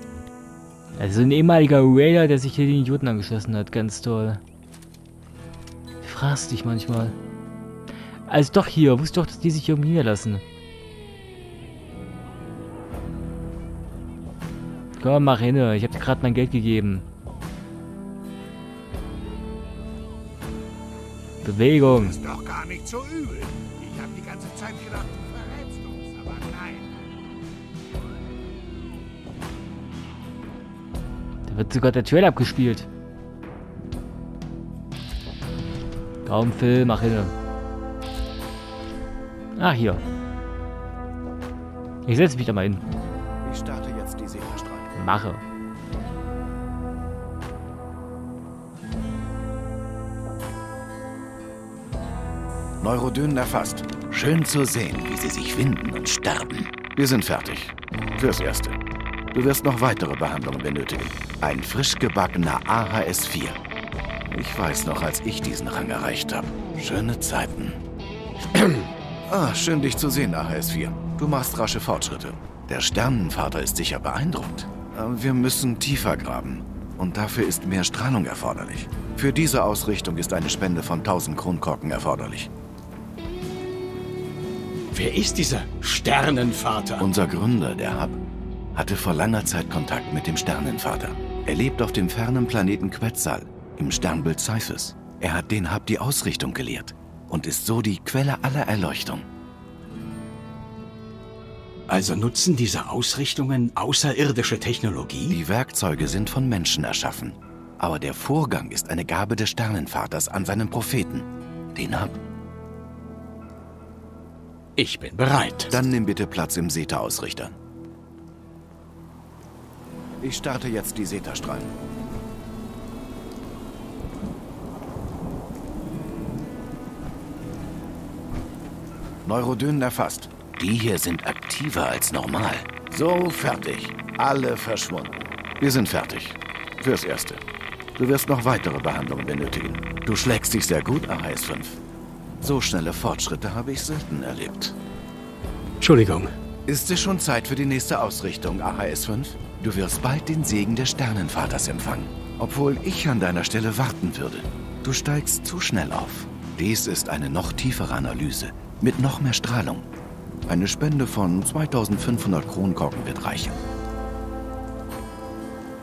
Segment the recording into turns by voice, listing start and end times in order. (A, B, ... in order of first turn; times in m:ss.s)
0:01.0-0:04.4 A
0:06.0-0:07.2 A
0:08.3-0:10.4 A
0:15.0-0:17.0 A
0:21.4-0:22.2 A
0:22.0-0:26.9 B
0:31.5-0:32.9 A
0:36.2-0:37.3 A
0:39.6-0:40.0 A
0:42.0-0:42.8 A
0:43.4-0:44.9 C
0:44.9-0:45.4 A
0:52.8-0:58.8 C
0:59.3-1:03.6 C
1:04.3-1:07.8 C
1:09.3-1:22.5 C
1:24.9-1:27.1 D
1:27.0-1:28.2 C
1:28.7-1:39.3 C
1:41.9-1:45.4 D
1:45.3-1:52.2 C
1:54.8-1:55.7 D
1:55.7-1:57.5 C
2:00.2-2:01.7 C
2:09.2-2:17.4 C
2:18.0-2:21.8 C
2:22.4-2:24.8 C
2:25.8-2:26.3 D
2:26.6-2:39.8 C
2:40.5-2:43.6 C